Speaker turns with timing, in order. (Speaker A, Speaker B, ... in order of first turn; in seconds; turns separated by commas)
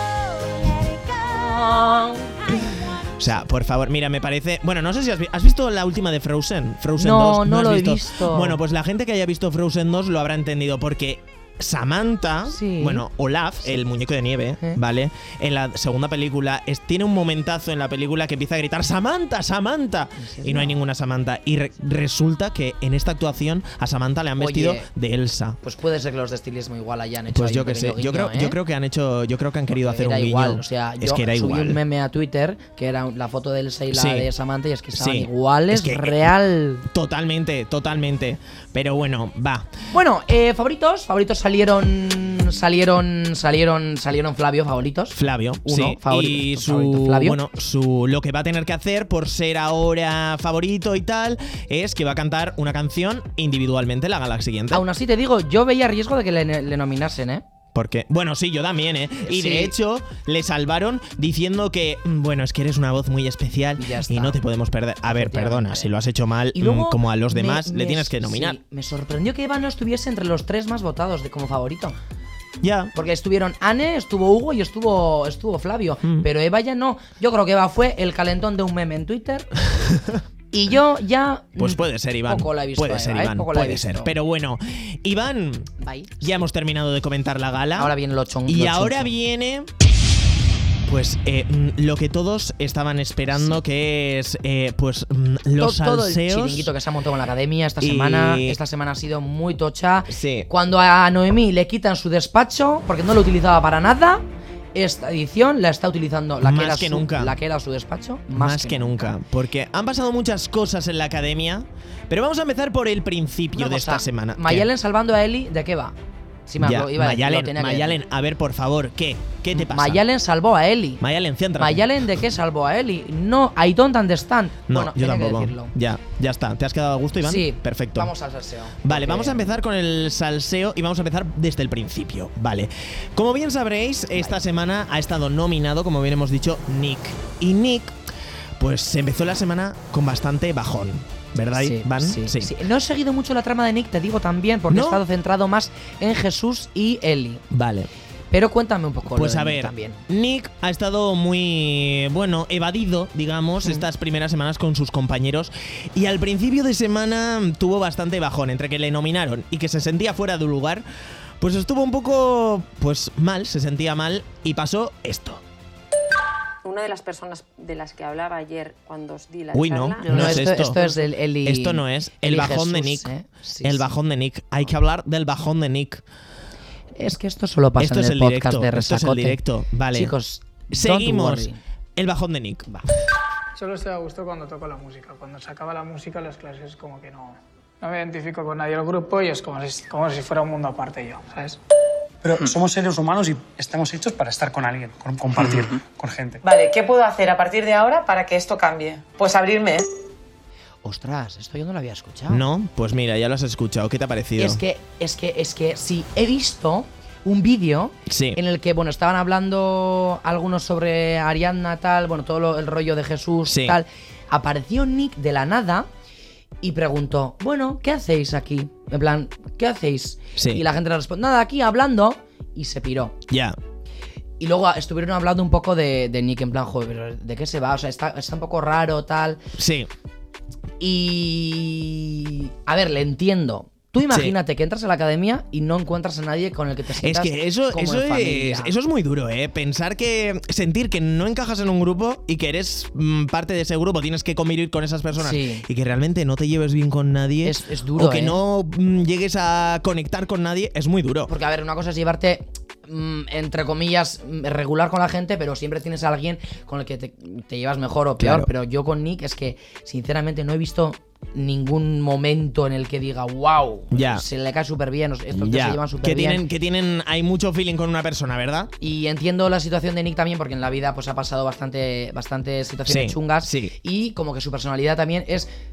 Speaker A: 1.1-2.5, Speaker B: 3.2-25.6, Speaker A: 7.0-8.6, Speaker A: 12.5-13.0, Speaker A: 20.2-20.8, Speaker A: 24.4-24.9, Speaker A: 25.6-28.6, Speaker B: 27.3-31.8, Speaker A: 29.7-36.9, Speaker B: 33.9-34.3, Speaker B: 35.0-36.2, Speaker B: 36.9-39.7, Speaker A: 39.9-47.4, Speaker B: 45.1-54.8, Speaker A: 54.7-57.4, Speaker B: 57.7-68.6, Speaker A: 59.2-59.7, Speaker A: 63.8-64.4, Speaker A: 65.0-65.9, Speaker A: 66.5-72.0, Speaker B: 72.6-72.9, Speaker A: 72.9-79.5, Speaker B: 79.8-80.2, Speaker A: 80.5-84.1, Speaker B: 81.6-85.7, Speaker A: 85.8-86.5, Speaker B: 86.2-87.9, Speaker A: 87.8-89.1, Speaker B: 88.5-89.7, Speaker B: 90.8-96.7, Speaker A: 93.3-93.6, Speaker A: 95.6-104.2, Speaker B: 97.8-98.6, Speaker B: 100.1-100.5, Speaker A: 104.7-109.1, Speaker B: 106.4-107.3, Speaker B: 108.3-114.7, Speaker A: 113.5-115.9, Speaker A: 116.5-118.0, Speaker B: 116.6-120.0, Speaker A: 119.5-121.0, Speaker B: 121.0-122.0, Speaker A: 121.6-125.7, Speaker B: 124.7-128.1, Speaker A: 127.2-129.4, Speaker B: 128.8-137.9, Speaker B: 138.6-142.5, Speaker A: 141.5-147.4, Speaker B: 144.7-145.0, Speaker B: 147.5-147.9, Speaker A: 148.3-150.0, Speaker B: 149.1-160.8, Speaker B: 161.4-165.4, Speaker C: 166.6-170.6, Speaker B: 169.5-170.8, Speaker A: 170.1-173.9, Speaker B: 171.4-173.1, Speaker B: 173.6-176.0, Speaker A: 177.0-179.4, Speaker B: 177.8-180.1, Speaker A: 179.9-181.6, Speaker B: 180.7-182.7, Speaker D: 183.6-191.6, Speaker E: 192.2-196.4, Speaker F: 196.4-199.9, Speaker A: 200.8-202.4, Speaker B: 202.3-204.6, Speaker A: 204.4-215.9, Speaker B: 208.1-208.4, Speaker B: 213.4-213.8, Speaker A: 216.6-223.1, Speaker B: 220.4-220.6, Speaker B: 223.3-223.6, Speaker A: 224.4-229.4, Speaker B: 229.6-229.9, Speaker A: 230.8-238.7, Speaker B: 234.1-234.3, Speaker B: 237.0-251.3, Speaker A: 245.2-245.7, Speaker A: 247.4-248.4, Speaker A: 251.3-266.4, Speaker B: 258.2-258.5, Speaker B: 263.9-264.2, Speaker B: 265.3-268.7, Speaker A: 268.8-275.5, Speaker B: 272.9-273.7